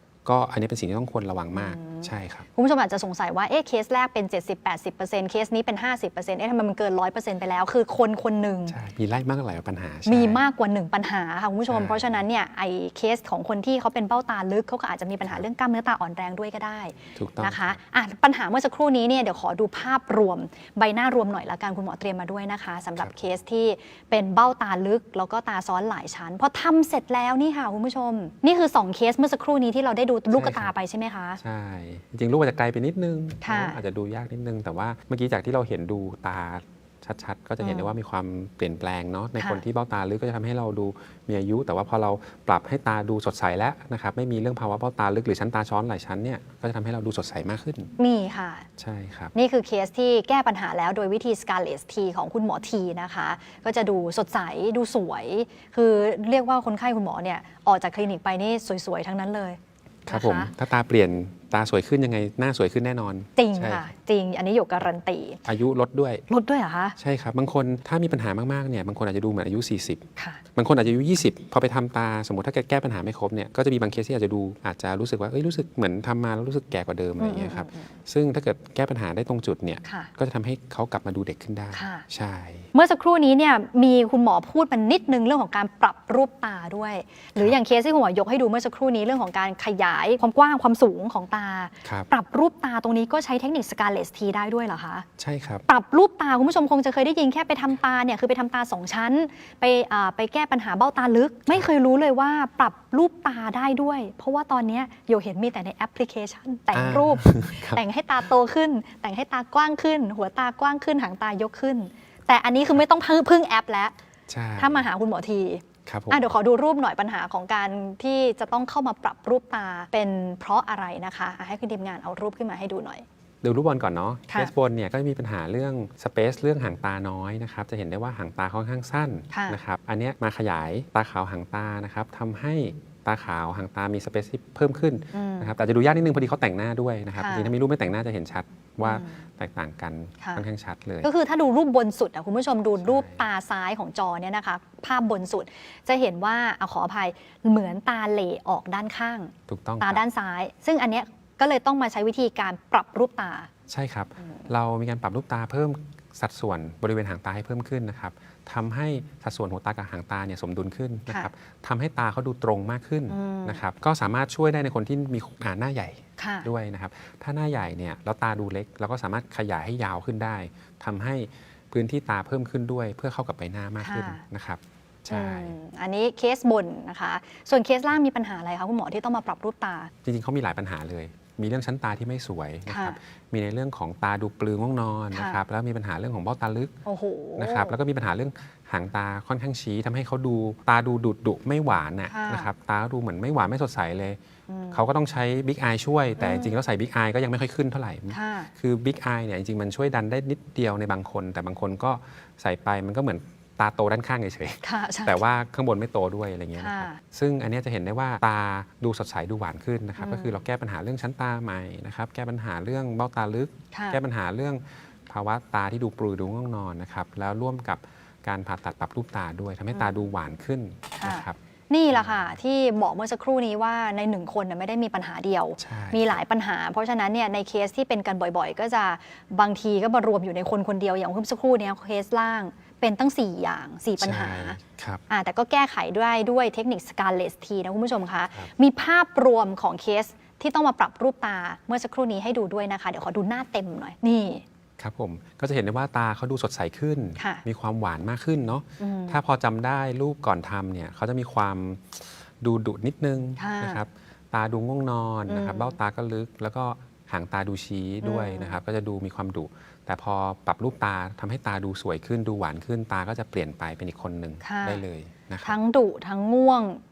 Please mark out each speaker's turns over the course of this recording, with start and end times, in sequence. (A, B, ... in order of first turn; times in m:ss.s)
0:00.2-0:02.4 A
0:01.5-0:08.8 B
0:08.7-0:10.4 A
0:10.1-0:31.4 B
0:11.7-0:12.2 A
0:17.2-0:17.8 A
0:30.3-0:30.7 A
0:31.4-0:47.9 A
0:33.4-0:33.8 B
0:37.6-0:37.9 B
0:48.0-0:48.7 B
0:48.8-0:49.3 A
0:49.4-1:00.5 B
1:00.1-1:03.9 A
1:03.4-1:05.4 B
1:05.4-1:06.2 A
1:06.3-1:07.0 B
1:07.0-1:22.7 A
1:10.2-1:10.4 B
1:17.2-1:17.9 B
1:19.8-1:20.1 B
1:21.7-1:22.0 B
1:22.7-1:35.1 B
1:35.2-1:35.7 A
1:35.7-1:53.9 B
1:46.7-1:47.8 A
1:54.3-1:54.9 A
1:54.6-2:03.0 B
1:55.9-1:56.3 A
2:03.4-2:21.1 A
2:09.3-2:09.6 B
2:15.1-2:15.5 B
2:17.2-2:17.5 B
2:18.8-2:19.2 B
2:21.0-2:33.5 B
2:22.8-2:23.2 A
2:29.5-2:30.0 A
2:33.7-2:55.6 A
2:34.2-2:34.5 B
2:43.1-2:43.6 B
2:46.2-2:46.5 B
2:53.8-2:54.2 B
2:55.1-2:59.9 B
3:00.0-3:06.7 A
3:02.7-3:03.0 B
3:05.1-3:05.4 B
3:06.8-3:07.8 B
3:07.4-3:14.2 A
3:12.1-3:12.5 B
3:14.5-3:14.8 B
3:14.7-3:41.4 A
3:16.2-3:16.5 B
3:18.1-3:18.5 B
3:24.6-3:25.2 B
3:26.6-3:27.0 B
3:30.0-3:30.4 B
3:33.7-3:34.0 B
3:41.0-3:54.6 B
3:41.9-3:42.4 A
3:45.6-3:46.2 A
3:54.0-3:55.0 A
3:55.1-4:04.4 B
4:04.8-4:25.6 A
4:07.2-4:07.4 B
4:08.8-4:09.2 B
4:13.4-4:13.8 B
4:15.3-4:15.8 B
4:18.0-4:18.6 B
4:24.4-4:24.8 B
4:25.4-4:26.8 B